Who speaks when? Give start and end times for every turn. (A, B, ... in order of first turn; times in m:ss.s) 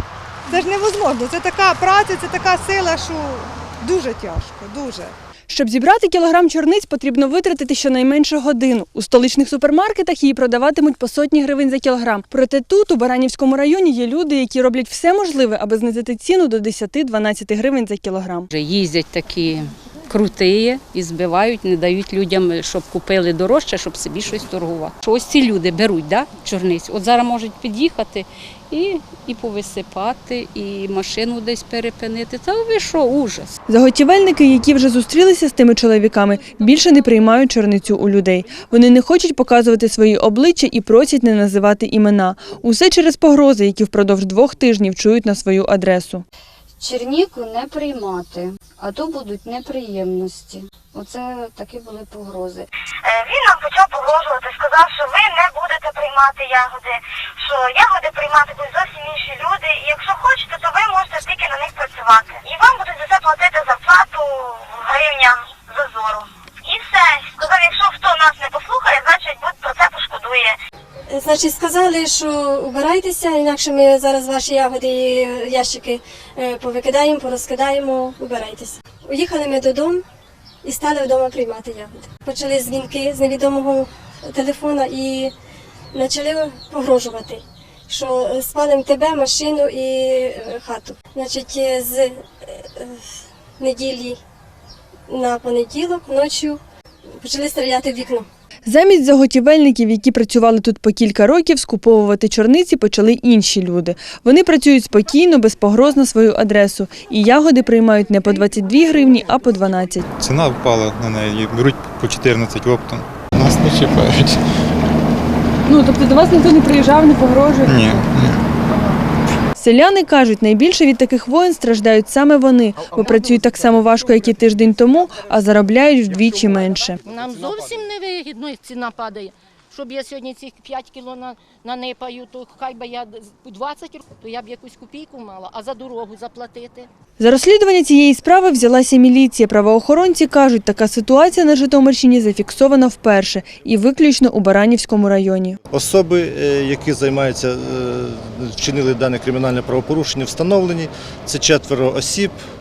0:00.5-0:05.1 A
0:05.5-0:18.5 B
0:18.5-0:33.5 C
0:33.7-0:46.2 B
0:46.8-0:52.7 D
0:53.0-1:10.6 E
1:11.1-1:20.0 F
1:20.6-1:25.3 F
1:25.9-1:33.0 F
1:33.6-1:34.2 F
1:35.1-1:36.6 F
1:37.2-1:38.3 F
1:38.7-1:50.0 B
1:50.2-1:54.4 G
1:55.7-1:58.0 B
1:57.7-1:58.4 G
1:59.6-2:07.0 B
2:07.0-2:16.9 H
2:17.2-2:25.6 B
2:25.7-2:32.4 I